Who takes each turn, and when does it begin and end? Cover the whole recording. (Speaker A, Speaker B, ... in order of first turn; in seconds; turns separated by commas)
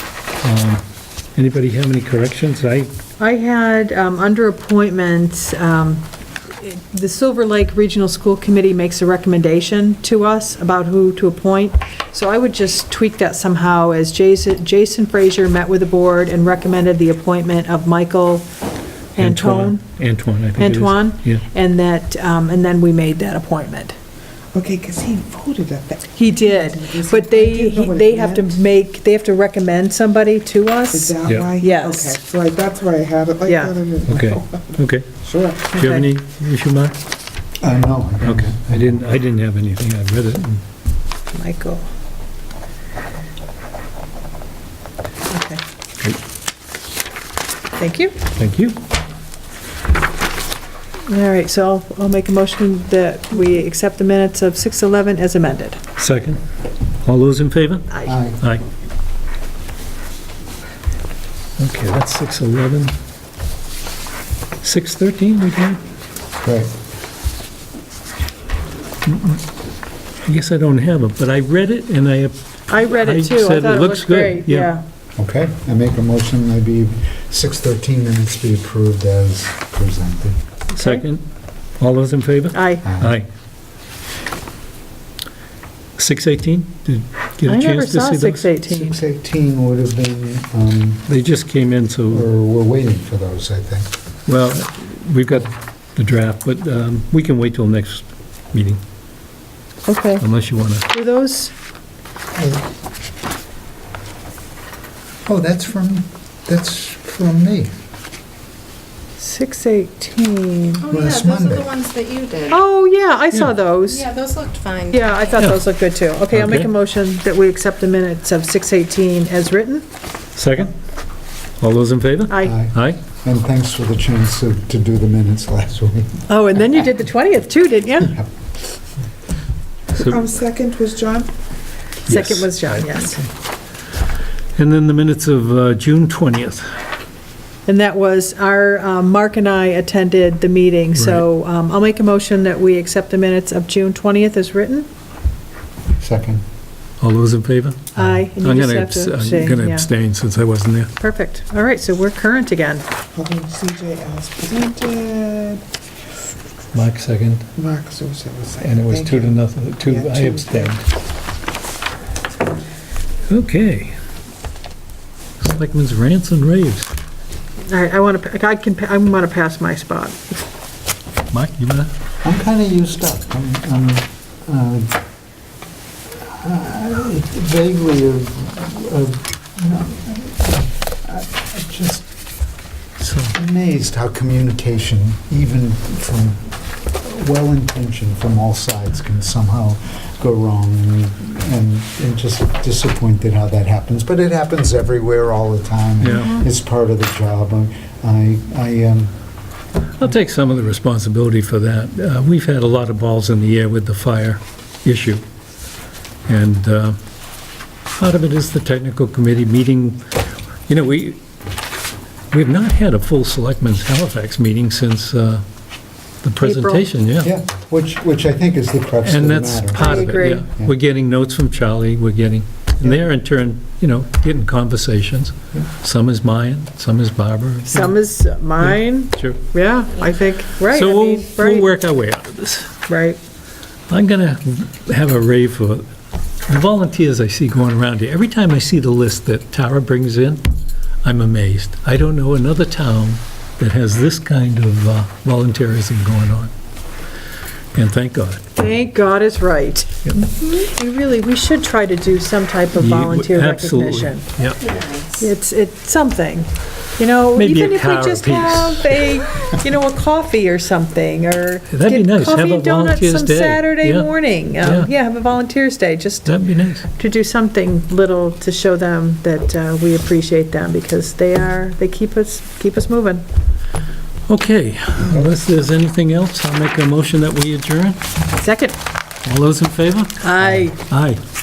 Speaker A: 0.4-0.8, Speaker A: 1.3-2.9, Speaker B: 3.2-18.5, Speaker B: 19.1-19.8, Speaker A: 19.2-21.4, Speaker B: 20.6-23.9, Speaker C: 24.5-28.6, Speaker B: 26.1-32.2, Speaker C: 30.9-35.8, Speaker A: 31.2-31.5, Speaker B: 33.5-33.7, Speaker A: 34.0-35.1, Speaker A: 35.6-37.0, Speaker B: 35.8-36.1, Speaker D: 37.6-39.0, Speaker A: 38.2-40.6, Speaker B: 41.3-41.9, Speaker B: 45.3-45.6, Speaker B: 47.7-48.2, Speaker A: 48.3-48.8, Speaker B: 51.1-55.8, Speaker A: 56.0-56.4, Speaker A: 57.0-57.9, Speaker D: 58.0-58.4, Speaker A: 61.6-62.9, Speaker A: 64.6-65.8, Speaker D: 66.4-66.7, Speaker A: 69.0-69.4, Speaker A: 70.2-74.8, Speaker B: 72.7-74.8, Speaker D: 75.2-80.4, Speaker A: 80.8-81.2, Speaker B: 80.8-81.0, Speaker A: 81.8-83.3, Speaker B: 82.5-82.8, Speaker D: 82.8-83.2, Speaker A: 86.0-88.5, Speaker B: 87.4-89.0, Speaker D: 88.7-91.0, Speaker A: 91.1-92.3, Speaker D: 92.1-93.9, Speaker A: 94.3-98.8, Speaker B: 99.9-100.2, Speaker A: 100.2-100.9, Speaker B: 100.9-101.5, Speaker D: 102.4-102.6, Speaker D: 105.2-107.7, Speaker B: 109.2-110.9, Speaker E: 110.8-112.5, Speaker D: 110.9-111.7, Speaker B: 112.5-114.1, Speaker E: 113.9-115.2, Speaker B: 114.9-119.8, Speaker A: 116.3-116.7, Speaker A: 120.4-120.7, Speaker A: 121.6-123.0, Speaker B: 122.3-122.5, Speaker D: 122.4-126.2, Speaker B: 126.3-128.2, Speaker A: 129.9-130.2, Speaker C: 130.0-131.3, Speaker A: 132.1-133.3, Speaker B: 132.1-133.2, Speaker A: 134.6-136.7, Speaker B: 137.7-144.9, Speaker A: 140.9-141.2, Speaker D: 146.0-146.4, Speaker A: 147.0-150.9, Speaker B: 148.0-149.9, Speaker B: 151.0-152.8, Speaker C: 153.1-155.7, Speaker A: 156.7-157.4, Speaker C: 157.6-160.8, Speaker A: 158.6-160.9, Speaker A: 163.3-164.0, Speaker A: 165.4-166.9, Speaker B: 167.7-170.4, Speaker A: 171.3-171.9, Speaker D: 172.2-175.0, Speaker D: 176.2-182.1, Speaker A: 183.0-183.3, Speaker D: 183.3-199.1, Speaker A: 196.0-196.4, Speaker A: 200.0-205.2, Speaker A: 206.3-207.0, Speaker A: 208.0-210.0, Speaker A: 210.7-211.2, Speaker A: 212.3-215.4, Speaker A: 216.2-217.3, Speaker B: 216.4-216.8, Speaker D: 217.2-220.7, Speaker A: 219.0-228.0, Speaker B: 219.7-220.5, Speaker B: 227.7-231.7, Speaker A: 228.6-229.4, Speaker A: 230.7-232.7, Speaker B: 232.9-233.2, Speaker A: 233.9-235.8, Speaker A: 236.5-240.4, Speaker A: 241.0-246.5, Speaker A: 247.7-248.4, Speaker B: 248.6-254.2, Speaker A: 252.8-254.7, Speaker E: 254.7-255.1, Speaker B: 255.2-273.2, Speaker A: 257.4-259.1, Speaker A: 261.7-264.9, Speaker A: 266.2-266.9, Speaker A: 274.3-278.0, Speaker B: 278.3-278.8, Speaker A: 279.2-281.2, Speaker B: 280.2-280.8